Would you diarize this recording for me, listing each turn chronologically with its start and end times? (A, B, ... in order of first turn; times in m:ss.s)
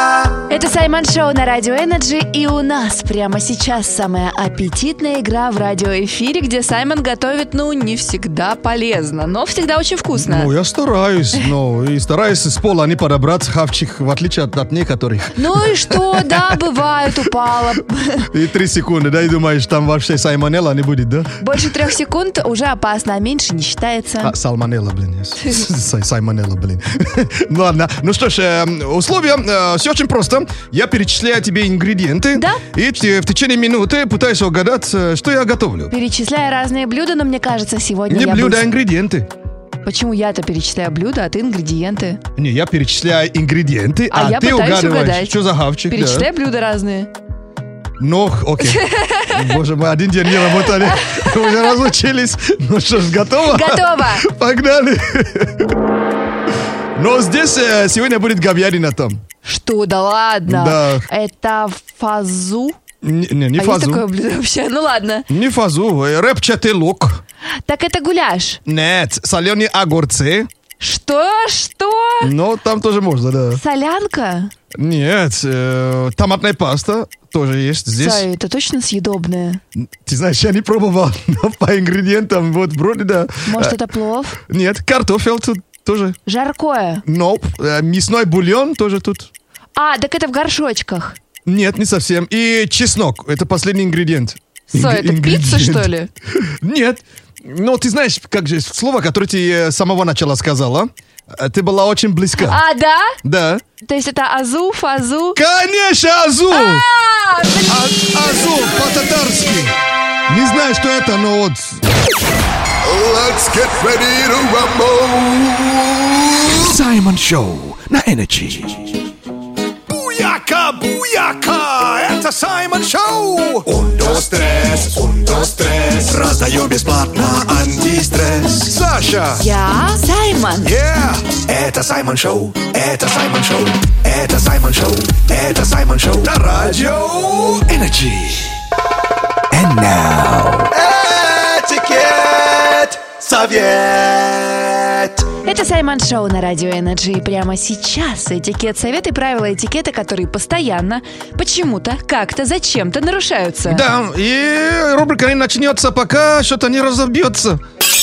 0:00.5-0:10.5 A
0:10.2-0:16.6 B
0:15.4-0:18.3 A
0:18.3-0:21.3 B
0:21.4-0:24.3 A
0:24.2-0:35.9 B
0:32.3-0:32.6 A
0:35.9-0:38.7 A
0:38.1-0:39.3 B
0:39.8-0:42.2 A
0:42.4-0:46.3 B
0:44.1-0:47.1 A
0:48.0-0:55.7 B
0:48.6-0:49.4 A
0:50.5-0:51.5 A
0:53.5-0:54.3 A
0:57.0-0:59.2 B
0:59.4-1:02.8 A
1:00.5-1:01.0 B
1:03.0-1:04.0 B
1:03.6-1:05.3 A
1:05.3-1:07.2 B
1:07.7-1:08.6 A
1:08.6-1:10.5 B
1:10.8-1:12.3 A
1:12.2-1:13.6 B
1:13.5-1:14.5 A
1:14.7-1:18.3 B
1:18.0-1:19.6 A
1:19.8-1:23.8 B
1:23.5-1:24.4 A
1:24.4-1:26.2 B
1:26.3-1:27.0 A
1:27.1-1:29.3 B
1:29.8-1:31.2 A
1:31.5-1:42.6 B
1:34.7-1:36.1 A
1:42.4-1:43.2 A
1:43.2-1:43.6 B
1:43.8-1:45.4 A
1:45.4-1:46.8 B
1:46.5-1:48.7 A
1:47.7-1:49.8 B
1:50.3-1:51.8 B
1:52.9-1:55.3 B
1:56.5-1:59.1 C
1:59.9-2:03.6 B
2:03.6-2:08.8 C
2:08.7-2:09.4 B
2:09.4-2:10.8 A
2:10.7-2:11.1 B
2:10.8-2:16.3 C
2:16.2-2:17.6 B
2:17.6-2:18.6 C
2:19.5-2:20.7 C
2:20.7-2:21.1 B
2:21.3-2:25.1 C
2:25.4-2:33.8 A
2:33.7-2:37.6 B